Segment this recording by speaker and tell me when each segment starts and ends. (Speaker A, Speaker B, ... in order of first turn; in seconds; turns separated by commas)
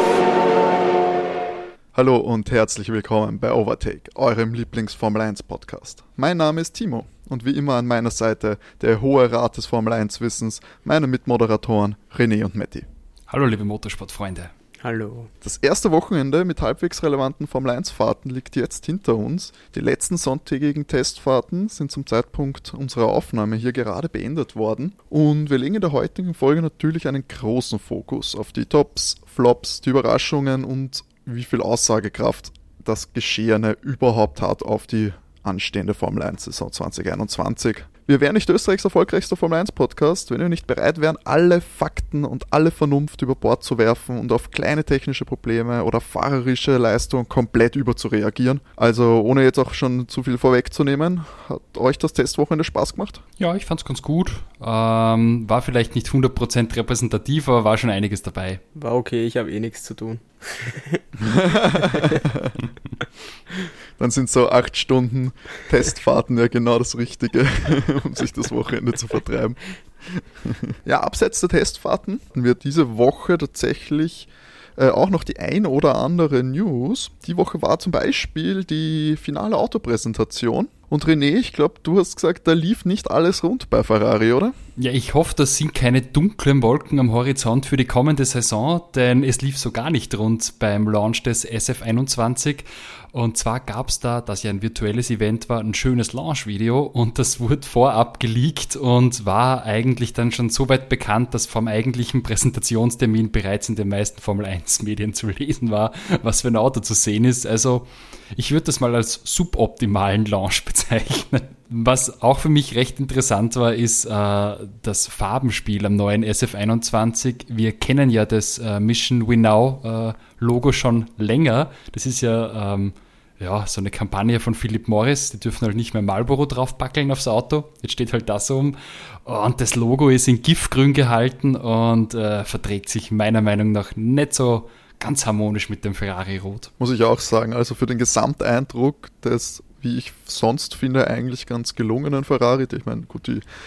Speaker A: 1.9-12.9, Speaker B: 13.3-14.5, Speaker C: 14.8-15.3, Speaker A: 15.4-53.2, Speaker B: 53.4-58.6, Speaker C: 58.7-61.0, Speaker A: 61.2-62.6, Speaker C: 61.8-62.1, Speaker A: 64.0-69.6, Speaker A: 70.2-84.5, Speaker B: 84.8-136.7, Speaker A: 136.8-143.4